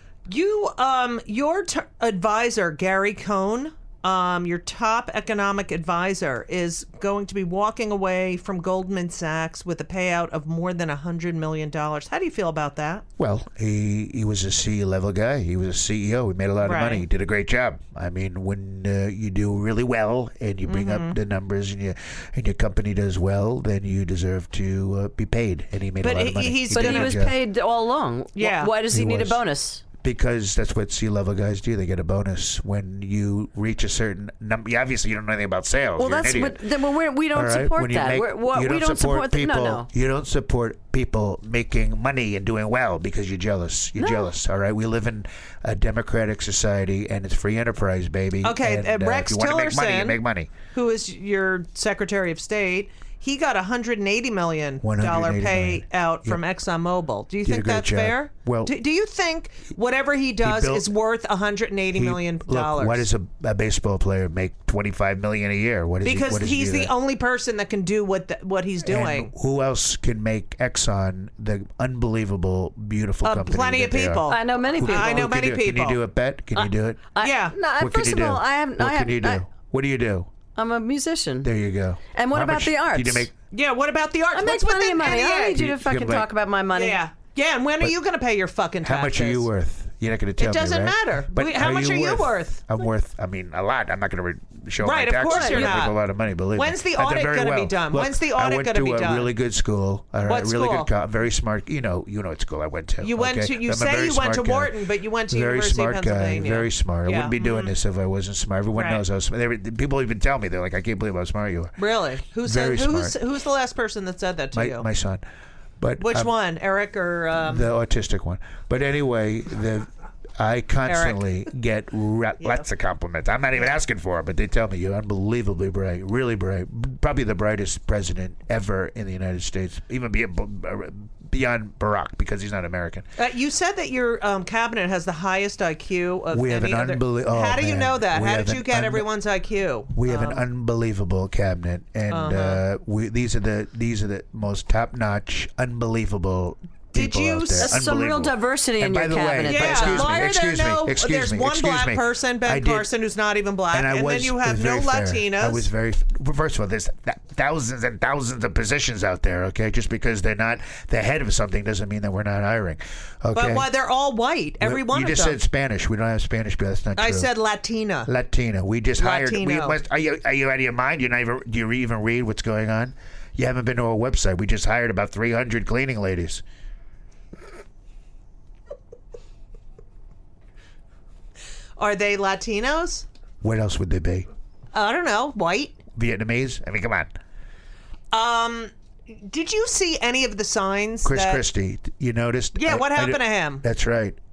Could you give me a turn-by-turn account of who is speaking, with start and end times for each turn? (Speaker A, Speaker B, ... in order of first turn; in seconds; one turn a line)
Speaker A: 0.3-13.0
Speaker B: 13.2-27.3
Speaker A: 16.6-17.1
Speaker A: 20.6-21.2
Speaker A: 26.0-27.2
Speaker C: 26.7-29.8
Speaker A: 28.3-28.8
Speaker B: 28.9-29.4
Speaker B: 30.0-36.6
Speaker C: 36.0-39.9
Speaker B: 37.3-50.5
Speaker A: 48.4-63.1
Speaker B: 54.8-56.4
Speaker B: 57.4-58.7
Speaker B: 60.4-60.9
Speaker B: 61.9-66.9
Speaker A: 66.0-69.3
Speaker B: 68.8-77.1
Speaker A: 73.2-76.0
Speaker C: 74.3-75.3
Speaker C: 76.6-79.4
Speaker A: 77.2-77.6
Speaker B: 77.8-80.3
Speaker C: 80.5-81.5
Speaker B: 81.4-83.3
Speaker C: 82.1-83.3
Speaker A: 83.5-85.6
Speaker C: 84.3-87.0
Speaker B: 85.3-86.3
Speaker A: 86.7-89.5
Speaker B: 88.8-104.7
Speaker A: 90.4-92.7
Speaker A: 94.8-96.0
Speaker C: 95.3-95.8
Speaker A: 96.5-99.3
Speaker A: 100.2-100.9
Speaker A: 103.0-107.8
Speaker B: 105.3-111.8
Speaker A: 108.7-109.0
Speaker A: 111.8-114.8
Speaker B: 112.4-113.2
Speaker B: 114.5-115.2
Speaker B: 115.8-116.3
Speaker A: 116.0-117.7
Speaker B: 117.3-133.1
Speaker A: 120.8-121.2
Speaker A: 133.2-140.4
Speaker B: 136.3-139.1
Speaker B: 139.9-152.9
Speaker A: 142.1-142.6
Speaker A: 146.9-147.8
Speaker C: 147.6-150.2
Speaker A: 149.4-155.7
Speaker B: 153.7-163.7
Speaker A: 163.3-165.4
Speaker B: 164.6-167.3
Speaker A: 166.9-168.1
Speaker B: 168.1-176.4
Speaker A: 168.9-169.8
Speaker A: 181.8-183.1
Speaker B: 183.4-184.3
Speaker A: 184.7-185.8
Speaker B: 185.9-187.1
Speaker A: 188.1-191.4
Speaker B: 191.0-194.2
Speaker A: 192.6-193.6